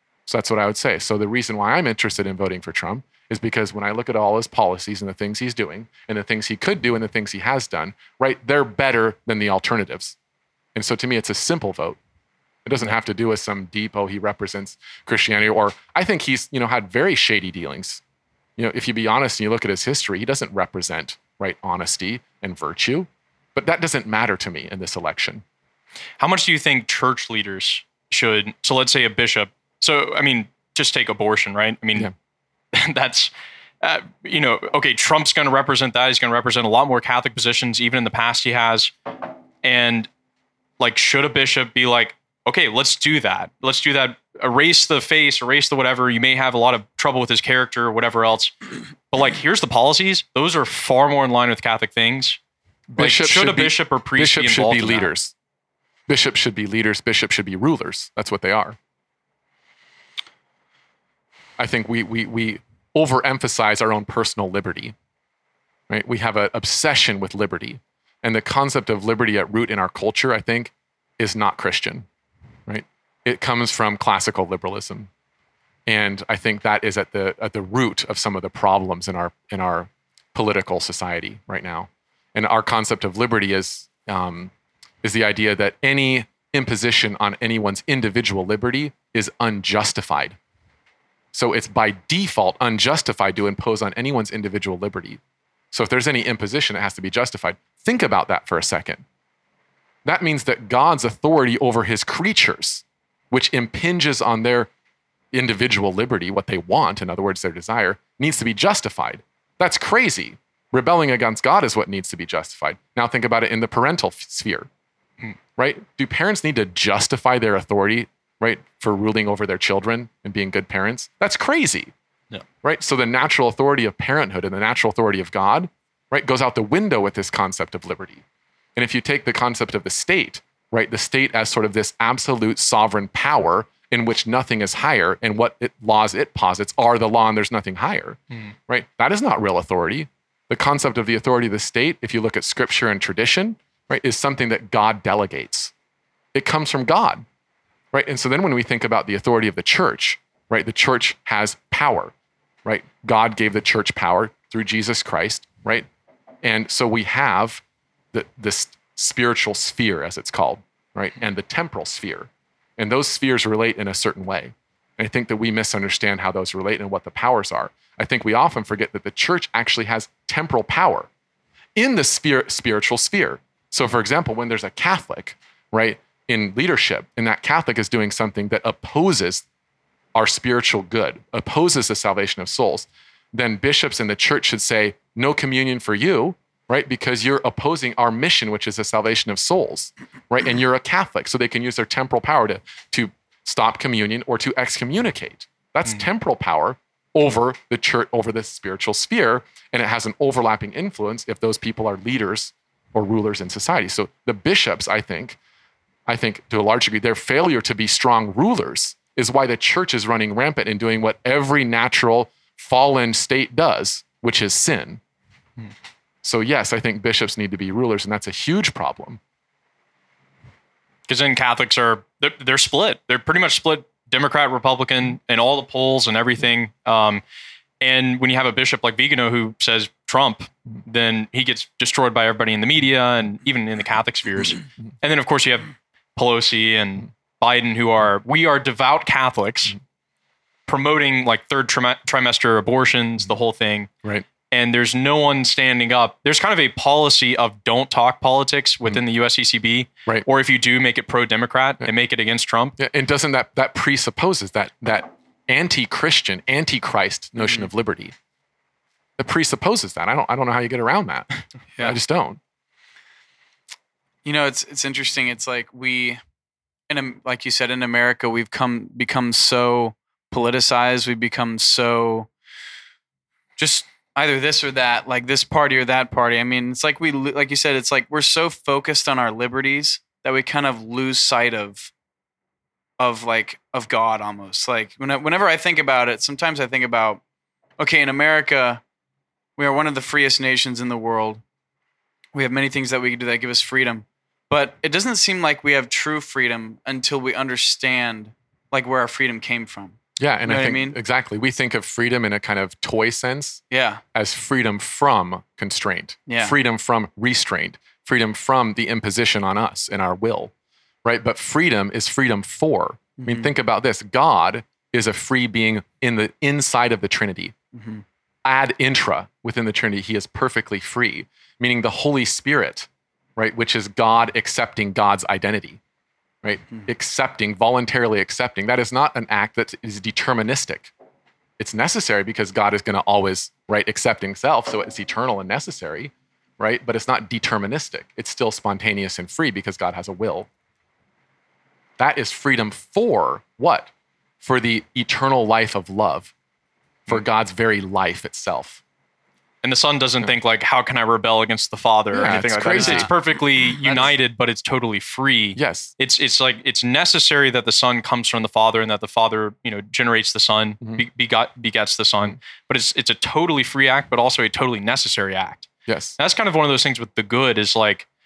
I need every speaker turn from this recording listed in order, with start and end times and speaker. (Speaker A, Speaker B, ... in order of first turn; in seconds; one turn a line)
Speaker A: 0.3-10.2
Speaker A: 10.7-12.0
Speaker A: 12.7-18.0
Speaker A: 18.6-25.4
Speaker B: 26.2-32.1
Speaker B: 32.7-33.3
Speaker B: 33.8-38.9
Speaker B: 39.6-40.1
Speaker B: 40.8-48.5
Speaker B: 49.1-52.4
Speaker A: 52.9-55.3
Speaker B: 53.0-55.1
Speaker A: 56.1-58.8
Speaker A: 61.6-64.9
Speaker A: 65.9-72.1
Speaker A: 72.7-75.1
Speaker A: 75.8-84.5
Speaker A: 85.0-90.4
Speaker A: 91.3-95.2
Speaker A: 95.7-99.0
Speaker A: 100.0-104.7
Speaker A: 105.3-114.7
Speaker A: 115.6-121.9
Speaker A: 122.6-128.2
Speaker A: 128.8-145.7
Speaker A: 146.3-147.2
Speaker A: 147.9-152.1
Speaker A: 152.6-155.9
Speaker A: 156.4-171.1
Speaker A: 171.8-179.4
Speaker A: 180.1-205.4
Speaker A: 206.1-215.0
Speaker A: 216.2-219.2
Speaker B: 221.1-227.2
Speaker B: 227.8-239.8
Speaker B: 240.7-243.9
Speaker B: 244.5-252.7
Speaker A: 252.8-258.1
Speaker C: 257.4-257.7
Speaker A: 259.2-262.4
Speaker C: 264.2-266.2
Speaker C: 266.9-272.3
Speaker C: 273.6-281.9
Speaker C: 283.0-287.2
Speaker C: 287.8-288.8
Speaker C: 289.6-291.4
Speaker C: 292.3-301.0
Speaker A: 300.2-303.6
Speaker C: 303.7-304.0
Speaker A: 304.1-310.5
Speaker C: 306.3-306.5
Speaker A: 311.0-317.5
Speaker C: 313.2-313.5
Speaker C: 317.7-318.0
Speaker A: 318.4-325.8
Speaker A: 326.4-330.9
Speaker A: 331.6-340.5
Speaker A: 342.0-346.3
Speaker A: 347.1-348.8
Speaker B: 349.6-368.1
Speaker A: 352.1-353.1
Speaker A: 353.8-354.1
Speaker A: 355.6-355.9
Speaker A: 365.9-366.1